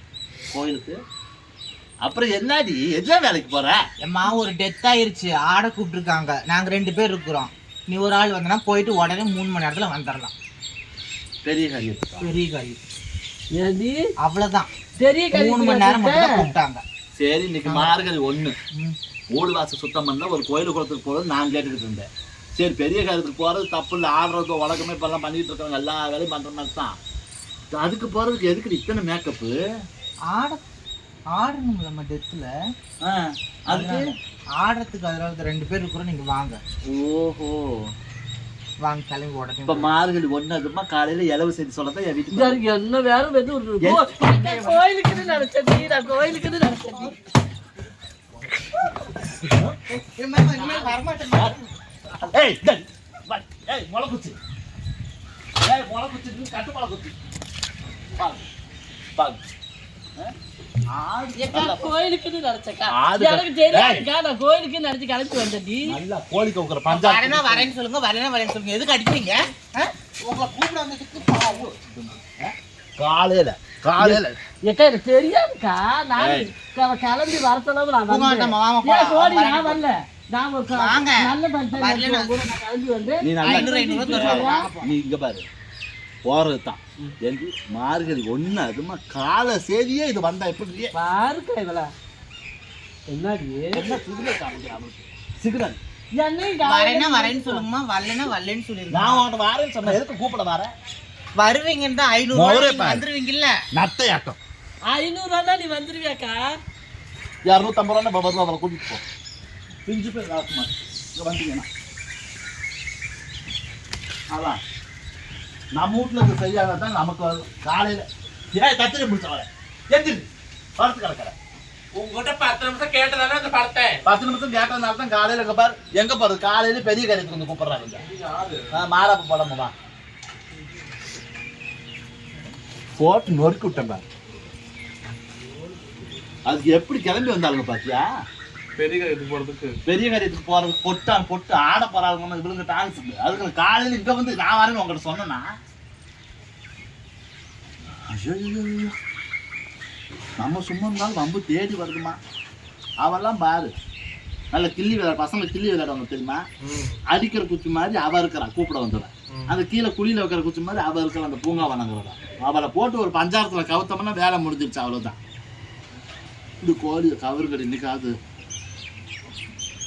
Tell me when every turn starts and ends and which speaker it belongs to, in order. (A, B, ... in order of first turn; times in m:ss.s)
0:00.5-0:01.0 A
0:02.0-0:03.8 A
0:04.0-0:10.3 B
0:11.4-0:12.3 A
0:12.2-0:12.8 B
0:13.6-0:14.1 C
0:14.2-0:14.7 B
0:15.0-0:16.5 C
0:15.3-0:16.8 B
0:17.2-0:18.5 A
0:17.7-0:18.0 B
0:19.3-0:27.0 A
0:27.7-0:29.6 A
0:30.3-0:30.6 B
0:31.4-0:32.5 B
0:33.0-0:34.1 A
0:33.7-0:36.6 B
0:36.8-0:37.9 A
0:38.8-0:39.9 B
0:39.7-0:42.6 A
0:42.3-0:47.2 C
0:43.8-0:44.1 A
0:44.2-0:45.3 B
0:49.4-0:49.8 A
0:50.0-0:51.6 B
0:50.5-0:51.6 A
0:52.2-0:54.4 A
0:55.6-0:57.1 A
0:58.2-0:58.5 A
0:59.2-0:59.4 A
1:00.9-1:01.9 A
1:01.4-1:06.0 C
1:02.9-1:04.1 A
1:05.9-1:07.7 A
1:06.9-1:09.9 B
1:10.2-1:14.4 A
1:11.1-1:11.6 B
1:14.0-1:24.7 C
1:16.2-1:16.5 A
1:18.1-1:19.8 B
1:20.7-1:22.4 B
1:23.2-1:25.5 A
1:23.4-1:24.9 B
1:26.3-1:30.9 A
1:31.0-1:31.9 C
1:33.1-1:33.8 C
1:33.7-1:35.8 A
1:36.1-1:37.6 C
1:36.6-1:39.2 B
1:38.9-1:40.7 A
1:41.4-1:43.6 B
1:42.3-1:43.0 A
1:43.7-1:44.4 A
1:44.8-1:46.4 C
1:47.5-1:49.0 A
1:49.9-1:51.7 A
1:54.3-1:54.6 A
1:55.8-2:01.4 A
2:01.9-2:04.0 D
2:04.1-2:08.1 A
2:07.9-2:08.7 D
2:08.7-2:09.7 A
2:13.0-2:14.0 A
2:16.5-2:18.1 A
2:18.8-2:19.8 D
2:19.9-2:25.5 A
2:28.1-2:29.0 A
2:30.4-2:32.2 A
2:33.0-2:33.7 A
2:34.5-2:36.4 A
2:36.6-2:37.0 D
2:37.1-2:45.2 A
2:39.3-2:39.6 D
2:46.6-2:48.2 A